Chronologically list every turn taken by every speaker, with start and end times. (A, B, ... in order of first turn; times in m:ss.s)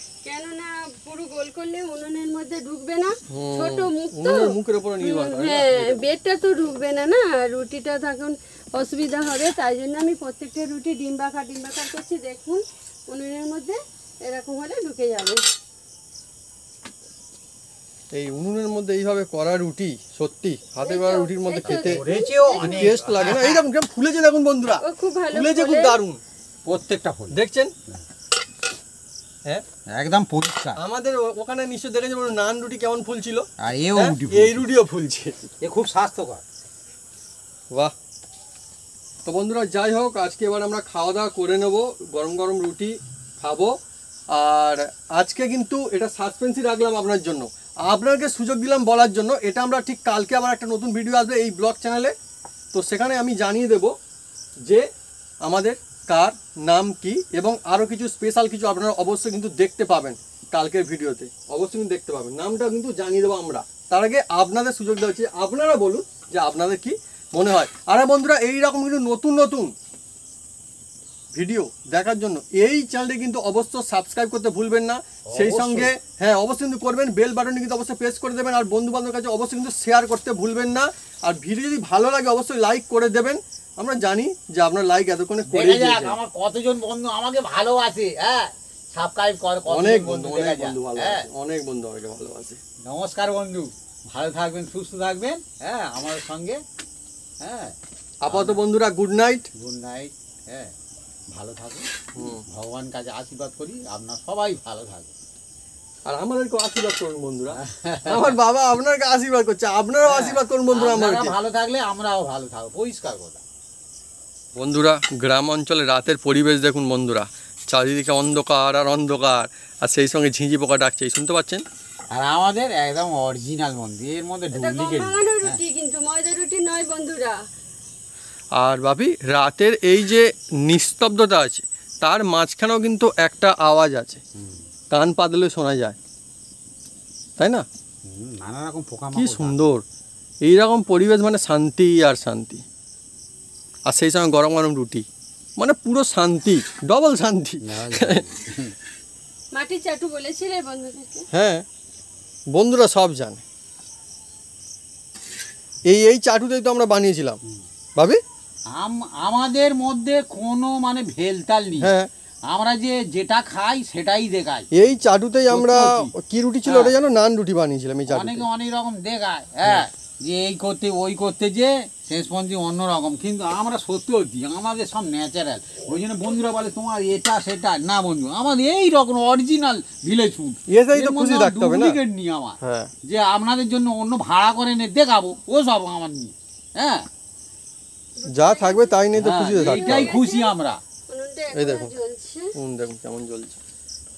0:00.2-0:15.4 A
0:03.3-0:06.1 B
0:18.1-0:22.0 B
0:20.8-0:23.0 A
0:21.6-0:23.6 C
0:22.6-0:26.2 B
0:24.8-0:26.0 A
0:26.6-0:27.4 C
0:27.3-0:27.7 B
0:29.9-0:30.8 C
0:30.8-0:35.4 B
0:33.6-0:34.6 C
0:35.6-0:36.4 C
0:39.3-0:43.7 B
0:44.3-0:52.1 B
0:52.7-0:53.9 B
0:55.4-1:09.7 B
1:11.3-1:26.2 B
1:15.3-1:15.9 C
1:25.4-1:31.3 C
1:29.7-1:32.6 B
1:32.8-1:36.6 C
1:37.4-1:37.8 C
1:38.2-1:39.5 B
1:38.3-1:38.6 C
1:39.6-1:40.7 C
1:41.3-1:45.2 C
1:42.2-1:42.4 B
1:46.1-1:51.4 B
1:47.5-1:48.4 C
1:50.0-1:53.4 C
1:54.6-2:01.6 B
2:02.1-2:05.6 C
2:04.5-2:07.4 A
2:08.6-2:14.2 B
2:14.9-2:16.0 B
2:17.4-2:17.6 B
2:18.1-2:19.6 C
2:19.1-2:19.8 B
2:20.4-2:22.6 B
2:23.9-2:25.0 B
2:25.6-2:28.2 B
2:27.6-2:28.7 C
2:29.5-2:31.3 A
2:31.3-2:31.6 B
2:32.5-2:33.4 B
2:35.9-2:37.4 B
2:38.7-2:41.9 C
2:41.8-2:42.1 B
2:42.5-2:44.7 C
2:44.7-2:48.5 B
2:45.5-2:46.1 C
2:46.6-2:47.0 C
2:48.1-3:07.1 C
3:00.7-3:02.0 B
3:02.6-3:02.9 B
3:08.2-3:09.0 A
3:08.3-3:10.1 B
3:09.2-3:10.8 C
3:09.5-3:10.5 A
3:11.1-3:12.5 A
3:11.6-3:11.9 B
3:12.6-3:13.6 B